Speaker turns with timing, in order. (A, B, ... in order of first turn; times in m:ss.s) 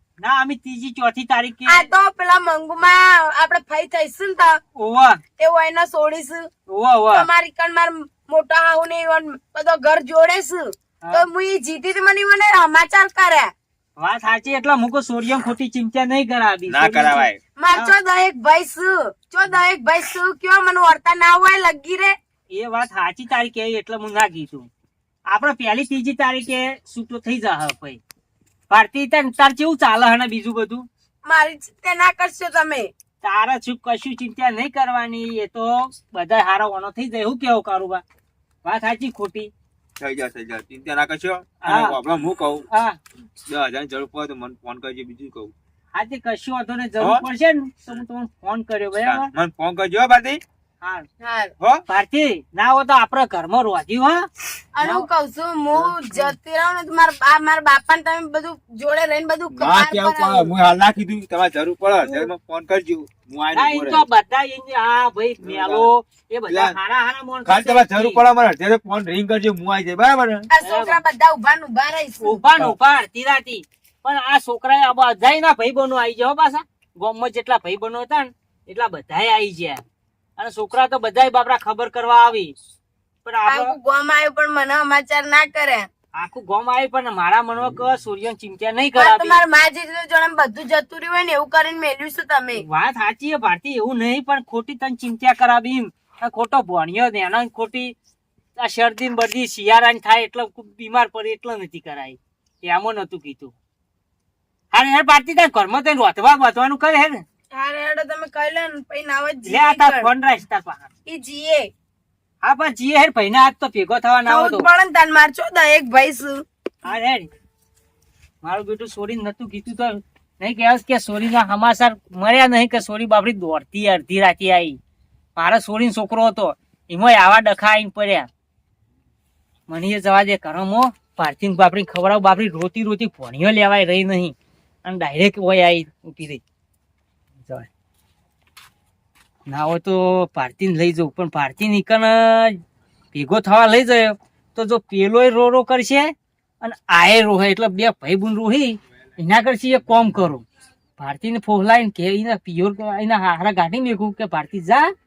0:00.2-0:01.9 A
0:01.6-0:04.6 B
0:04.8-0:05.2 A
0:05.4-0:06.5 B
0:06.7-0:07.3 A
0:07.1-0:13.5 B
0:11.0-0:11.3 A
0:14.0-0:17.9 A
0:16.7-0:17.4 C
0:17.6-0:22.1 B
0:22.5-0:24.7 A
0:25.3-0:28.0 A
0:28.7-0:30.9 A
0:31.2-0:32.9 B
0:33.2-0:38.0 A
0:38.6-0:39.5 A
0:40.0-0:42.6 C
0:41.6-0:42.0 A
0:42.7-0:43.0 A
0:43.5-0:45.5 C
0:45.9-0:49.3 A
0:47.0-0:47.2 C
0:49.0-0:50.4 C
0:50.8-0:51.1 A
0:51.2-0:51.5 B
0:51.9-0:54.3 A
0:54.7-1:00.5 B
0:54.8-0:55.0 A
0:59.5-1:04.1 C
1:02.0-1:02.3 A
1:03.5-1:08.2 A
1:05.4-1:05.9 C
1:06.5-1:06.8 C
1:07.4-1:10.5 C
1:10.5-1:12.4 B
1:10.6-1:11.0 A
1:12.2-1:19.8 A
1:20.4-1:22.5 A
1:23.2-1:23.8 A
1:23.4-1:25.9 B
1:26.1-1:29.4 A
1:29.0-1:32.6 B
1:32.6-1:37.9 A
1:38.6-1:43.5 A
1:44.7-1:47.2 A
1:47.5-1:50.1 B
1:49.4-1:50.9 A
1:51.0-1:51.7 B
1:52.4-1:54.7 A
1:54.2-1:56.4 B
1:56.8-1:57.3 A
1:58.4-2:04.8 A
2:05.4-2:08.3 A
2:09.7-2:16.4 A
2:19.5-2:22.6 A
2:23.1-2:30.4 A
2:31.0-2:34.9 A